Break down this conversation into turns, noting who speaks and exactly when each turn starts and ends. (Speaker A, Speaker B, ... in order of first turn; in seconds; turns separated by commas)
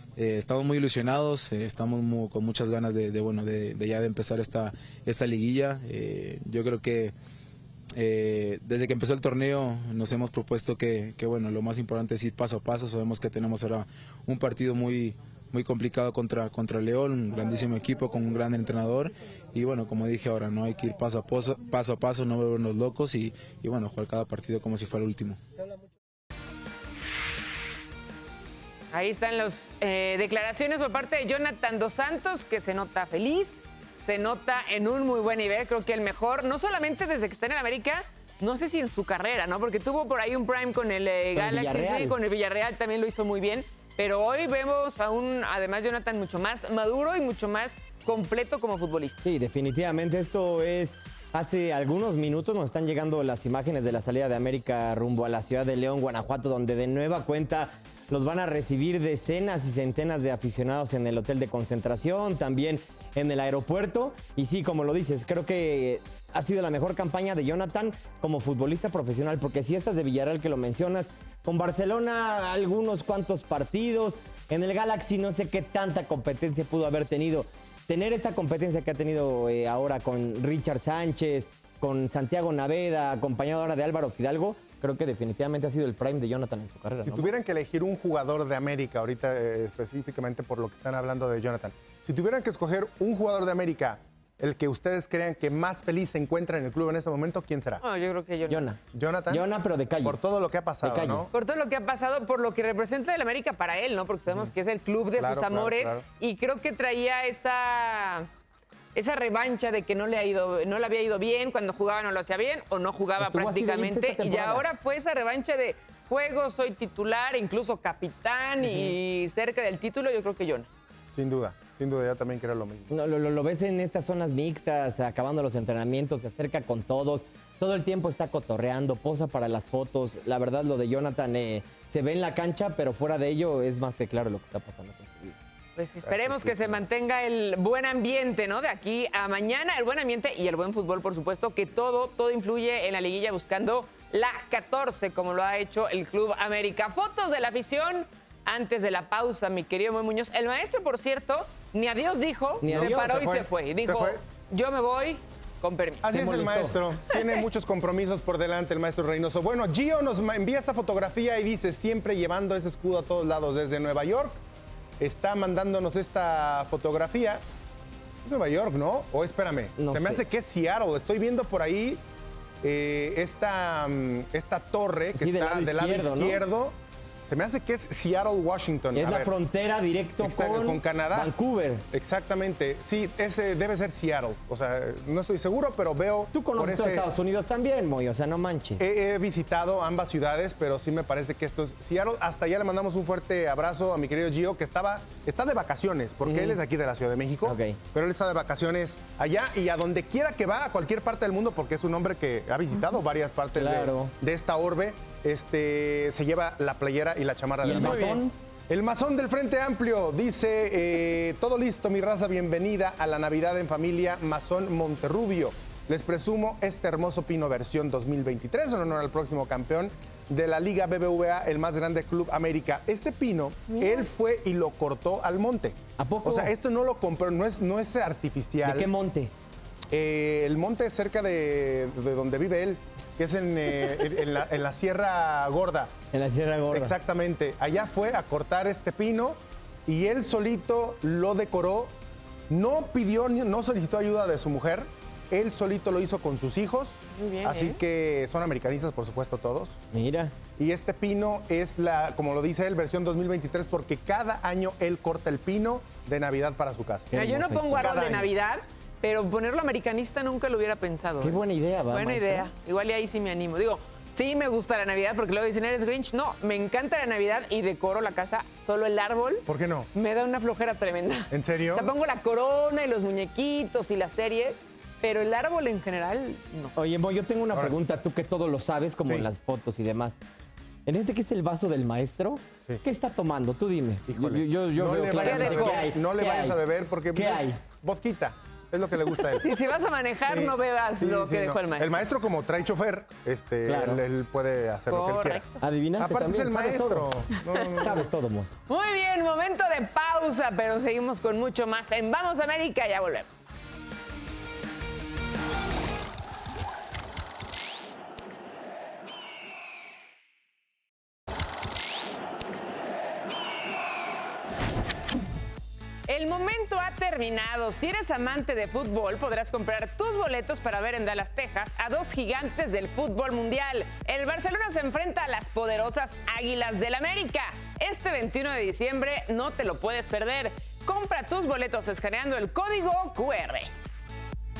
Speaker A: 0.1-7.1, Speaker A: 7.9-25.4, Speaker B: 28.9-49.2, Speaker C: 41.3-42.2, Speaker C: 49.2-87.3, Speaker D: 87.0-97.8, Speaker B: 97.8-98.6, Speaker C: 98.5-100.2, Speaker D: 98.9-99.5, Speaker D: 100.0-101.3, Speaker C: 100.8-101.3, Speaker B: 101.3-108.3, Speaker D: 105.2-106.0, Speaker B: 108.9-120.7, Speaker C: 113.2-114.6, Speaker D: 121.1-123.0, Speaker C: 122.9-135.4, Speaker B: 135.8-156.1, Speaker C: 152.6-153.4, Speaker D: 152.6-154.2, Speaker D: 156.0-164.4, Speaker C: 156.1-156.8, Speaker D: 165.0-167.4, Speaker D: 168.2-172.0, Speaker C: 169.8-170.2, Speaker D: 172.6-179.3, Speaker C: 175.1-176.4, Speaker C: 178.9-181.8, Speaker D: 180.2-181.3, Speaker D: 181.9-187.1, Speaker C: 186.3-188.8, Speaker D: 188.8-228.9, Speaker C: 196.2-196.6, Speaker C: 197.4-197.8, Speaker C: 203.5-204.1, Speaker C: 207.6-208.3, Speaker C: 226.0-226.5, Speaker C: 228.6-229.3, Speaker D: 229.9-235.9, Speaker C: 236.1-236.9, Speaker D: 236.7-241.9, Speaker D: 242.5-249.8, Speaker B: 247.1-247.8, Speaker C: 249.9-250.3, Speaker D: 250.6-257.1, Speaker C: 257.1-257.9, Speaker B: 257.1-261.4, Speaker D: 257.7-258.3, Speaker C: 261.2-262.5, Speaker B: 261.9-276.7, Speaker D: 269.5-269.9, Speaker D: 271.3-271.9, Speaker C: 276.7-280.2, Speaker C: 280.9-286.6, Speaker D: 284.1-289.5, Speaker B: 285.2-285.9, Speaker C: 287.1-287.6, Speaker B: 289.4-292.1, Speaker D: 290.2-295.4, Speaker C: 293.6-294.0, Speaker B: 294.9-295.6, Speaker C: 295.6-297.1, Speaker D: 296.0-298.1, Speaker C: 297.8-298.5, Speaker B: 298.7-303.4, Speaker B: 316.1-333.7